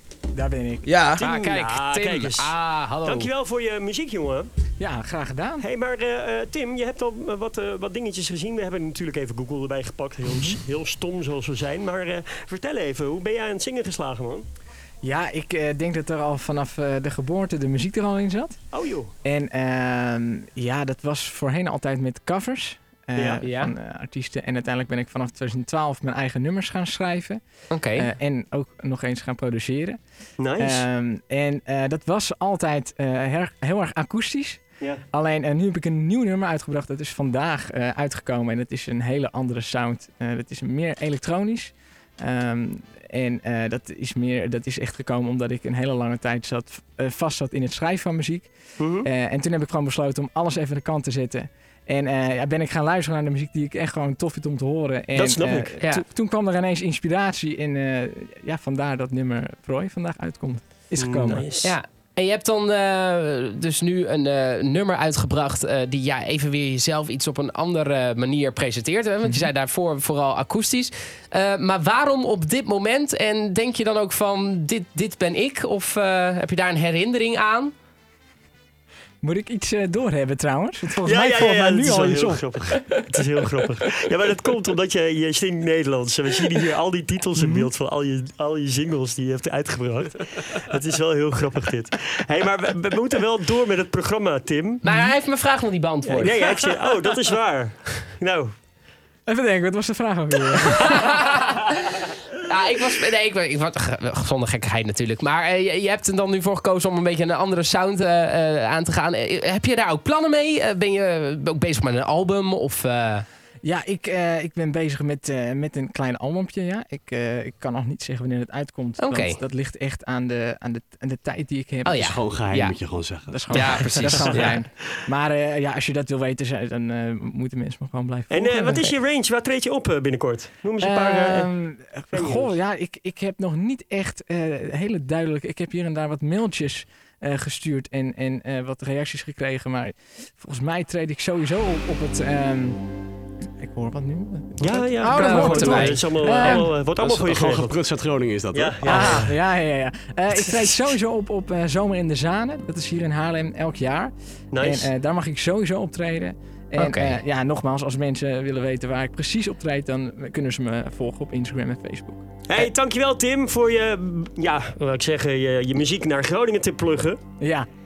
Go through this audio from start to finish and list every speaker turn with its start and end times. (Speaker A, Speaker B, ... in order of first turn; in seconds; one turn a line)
Speaker A: 0.3-1.1
Speaker B: 1.0-2.5
Speaker C: 1.2-3.3
Speaker B: 3.0-4.5
Speaker A: 4.8-5.6
Speaker B: 5.6-14.4
Speaker A: 10.3-10.6
Speaker A: 15.0-18.6
Speaker B: 18.7-19.1
Speaker A: 19.2-27.4
Speaker B: 23.1-23.4
Speaker C: 23.4-23.7
Speaker C: 27.7-28.1
Speaker A: 27.9-30.0
Speaker B: 30.4-30.8
Speaker A: 30.6-34.6
Speaker A: 35.1-48.5
Speaker B: 48.8-49.1
Speaker A: 49.0-61.5
Speaker B: 55.1-55.8
Speaker B: 61.0-61.7
Speaker C: 61.6-77.7
Speaker A: 69.2-69.5
Speaker A: 79.2-83.0
Speaker B: 81.0-94.8
Speaker A: 87.4-87.7
Speaker C: 94.8-96.4
Speaker A: 94.8-95.1
Speaker B: 96.0-98.5
Speaker A: 99.3-101.2
Speaker C: 100.7-101.7
Speaker C: 102.4-113.2
Speaker A: 113.6-122.2
Speaker C: 119.0-119.4
Speaker C: 121.8-122.8
Speaker D: 122.0-123.9
Speaker A: 123.3-128.9
Speaker C: 123.5-124.6
Speaker B: 128.3-131.5
Speaker A: 130.8-142.8
Speaker B: 132.1-132.6
Speaker A: 143.6-146.7
Speaker B: 144.6-147.7
Speaker C: 145.0-146.6
Speaker D: 146.8-149.3
Speaker B: 148.5-149.3
Speaker A: 148.8-162.7
Speaker B: 154.5-154.9
Speaker C: 156.8-157.2
Speaker B: 162.5-167.2
Speaker A: 167.4-167.7